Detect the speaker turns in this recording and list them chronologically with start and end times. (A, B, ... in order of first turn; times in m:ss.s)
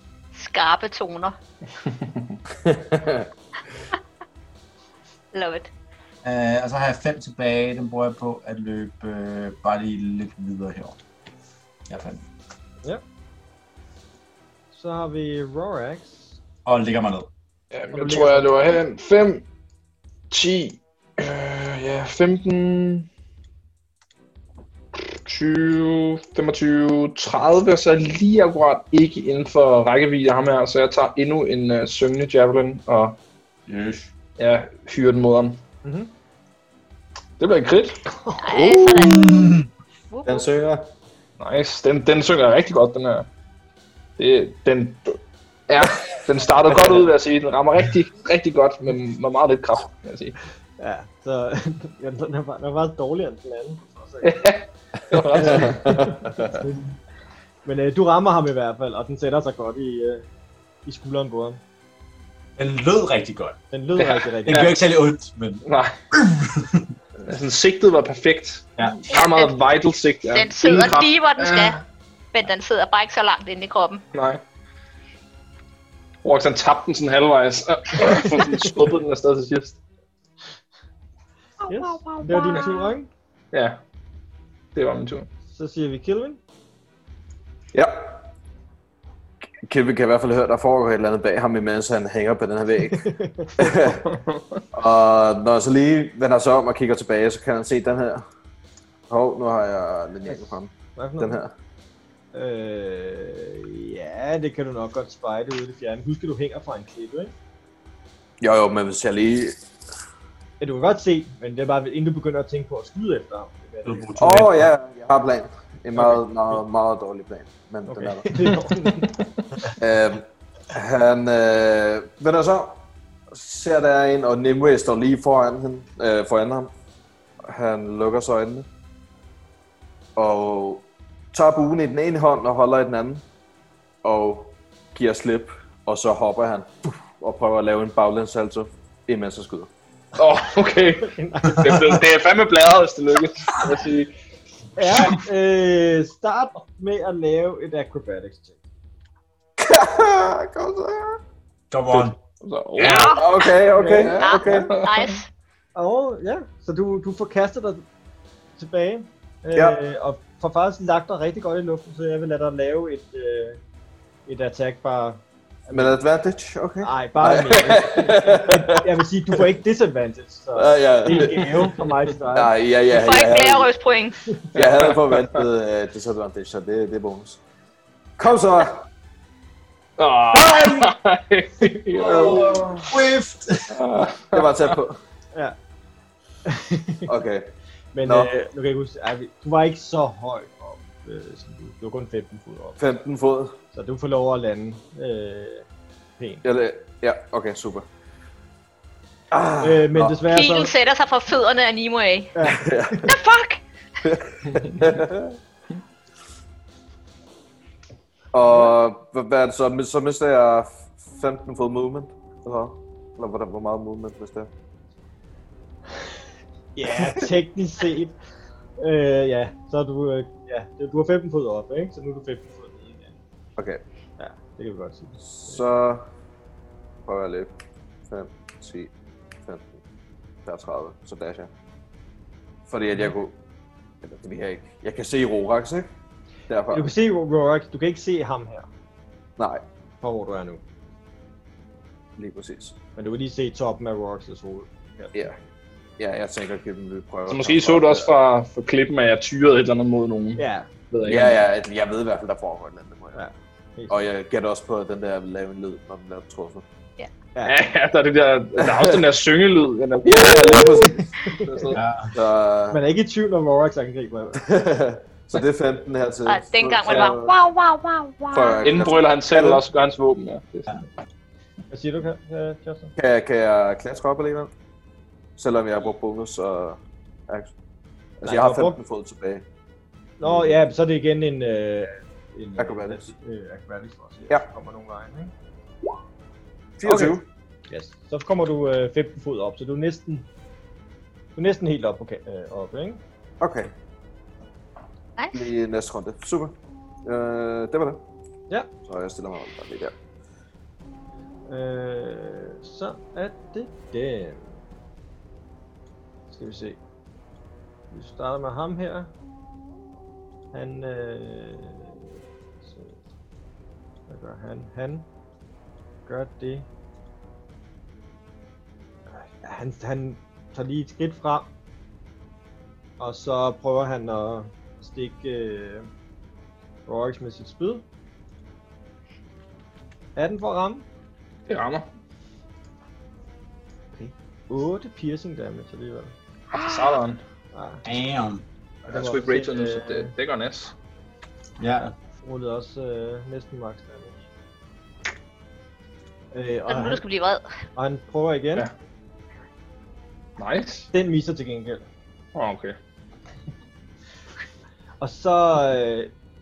0:00.3-0:01.4 A
0:01.9-0:02.4 B
0:02.6-0:03.3 C
0:05.3-0:05.7 A
0:06.2-0:11.0 D
0:11.9-0:12.2 D
0:14.7-0:16.4 E
0:16.6-0:17.3 D
0:17.7-0:19.4 B
0:17.9-0:18.5 E
0:20.3-0:23.1 B
0:25.0-0:33.2 B
0:33.7-0:34.0 C
0:34.4-0:35.6 B
0:35.8-0:36.1 E
0:37.4-0:38.0 B
0:38.1-0:38.5 E
0:38.4-0:39.6 A
0:38.9-0:39.7 D
0:40.1-0:40.4 A
0:40.2-0:40.9 C
0:41.4-0:43.3 B
0:44.2-0:50.4 B
0:50.8-0:54.5 E
0:54.2-0:56.3 B
0:55.3-0:56.9 E
0:55.4-0:56.4 C
0:57.6-1:00.3 E
1:00.9-1:01.6 E
1:02.6-1:03.6 D
1:03.7-1:04.7 E
1:04.0-1:04.7 B
1:04.4-1:06.9 D
1:05.6-1:06.0 B
1:07.2-1:11.8 B
1:09.1-1:09.7 A
1:10.3-1:11.8 A
1:12.3-1:14.0 A
1:14.1-1:14.4 B
1:16.2-1:19.8 B
1:21.6-1:23.0 A
1:21.7-1:23.1 E
1:23.5-1:23.8 B
1:24.8-1:25.3 B
1:25.5-1:26.4 E
1:27.7-1:28.2 C
1:29.6-1:34.1 C
1:32.9-1:33.8 E
1:34.0-1:34.6 B
1:34.7-1:38.2 C
1:39.1-1:41.5 C
1:41.0-1:41.4 E
1:42.3-1:47.3 E
1:48.4-1:49.6 C
1:50.6-1:54.1 E
1:53.8-1:54.7 D
1:54.2-1:58.6 C
1:56.0-1:56.2 E
1:57.9-1:59.7 E
1:59.7-2:06.7 C
2:07.5-2:08.7 C
2:10.2-2:13.2 C
2:14.0-2:19.7 C
2:20.2-2:24.1 B
2:21.0-2:21.9 E
2:24.8-2:28.6 E
2:24.9-2:25.2 B
2:29.6-2:31.2 C
2:31.7-2:32.2 D
2:31.9-2:33.2 B
2:32.8-2:33.2 D
2:32.8-2:33.5 A
2:32.8-2:34.8 C
2:33.7-2:34.6 E
2:34.0-2:35.0 B
2:34.2-2:35.3 A
2:35.8-2:37.8 E
2:38.6-2:43.6 E
2:39.5-2:39.8 C
2:44.3-2:46.0 E
2:45.7-2:48.9 C
2:46.8-2:52.5 E
2:50.6-2:51.8 C
2:52.3-2:53.7 C
2:52.9-2:54.4 A
2:54.5-2:57.4 C
2:54.5-2:55.5 B
2:58.2-2:58.9 C
3:00.0-3:02.8 B
3:02.0-3:03.0 C
3:02.8-3:03.8 D
3:03.7-3:04.8 B
3:04.3-3:05.0 C
3:06.4-3:07.1 E
3:07.1-3:07.5 C
3:08.0-3:12.8 E
3:08.0-3:08.3 C
3:12.8-3:13.6 C
3:13.7-3:15.7 E
3:16.4-3:17.8 C
3:19.3-3:20.2 C
3:19.6-3:20.7 E
3:20.3-3:22.3 A
3:22.4-3:23.1 E
3:22.4-3:23.1 C
3:23.0-3:23.6 A
3:24.1-3:25.4 C
3:28.3-3:34.5 C
3:36.8-3:38.2 E
3:38.8-3:43.2 E
3:43.6-3:43.8 C
3:44.2-3:45.6 E
3:45.2-3:46.0 C
3:47.1-3:47.5 C
3:48.1-3:48.9 C
3:49.4-3:49.8 C
3:50.4-3:51.5 C
3:52.7-3:53.4 C
3:54.0-3:55.9 C
3:56.5-3:56.9 C
3:56.7-3:58.7 E
3:59.4-3:59.6 C
4:00.0-4:00.6 E
4:02.2-4:02.8 C
4:03.0-4:05.2 E
4:06.0-4:08.1 C
4:07.3-4:11.4 B
4:10.4-4:10.7 E
4:11.1-4:13.2 C
4:13.1-4:14.0 E
4:13.9-4:16.6 C
4:17.4-4:21.8 B
4:18.6-4:19.0 C
4:20.0-4:22.8 C
4:20.8-4:21.7 E
4:21.7-4:22.1 D
4:22.7-4:24.5 E
4:24.4-4:27.3 C
4:26.3-4:28.9 A
4:28.3-4:29.6 C
4:28.6-4:30.8 B
4:31.7-4:32.9 E
4:33.0-4:34.5 C
4:35.4-4:37.5 C
4:38.2-4:39.5 C
4:38.2-4:38.8 E
4:40.2-4:45.3 E
4:42.6-4:43.1 C
4:46.8-4:47.2 C
4:46.8-4:47.2 E
4:47.7-4:50.3 E
4:51.4-4:53.0 E
4:53.4-4:53.7 C
4:55.2-4:55.5 A
4:55.3-4:56.6 C
4:57.1-4:58.0 C
4:58.8-4:59.9 C
5:01.5-5:04.6 E
5:06.3-5:06.8 E
5:07.9-5:09.1 E
5:10.5-5:12.1 E
5:12.6-5:13.0 E
5:14.1-5:15.1 E
5:16.1-5:16.7 E
5:19.2-5:21.5 E
5:23.0-5:25.9 E
5:26.9-5:27.8 E
5:30.2-5:30.9 E
5:31.5-5:31.9 B
5:33.9-5:36.1 E
5:36.5-5:37.2 B
5:36.5-5:36.9 A
5:37.5-5:37.9 E
5:37.8-5:38.4 D
5:38.9-5:40.7 B
5:38.9-5:40.1 E
5:41.6-5:42.0 D
5:42.2-5:44.2 E
5:46.3-5:47.0 E
5:46.7-5:47.4 A
5:47.8-5:48.7 E
5:50.4-5:50.9 B
5:50.9-5:51.8 E
5:52.4-5:52.8 B
5:55.0-5:56.1 E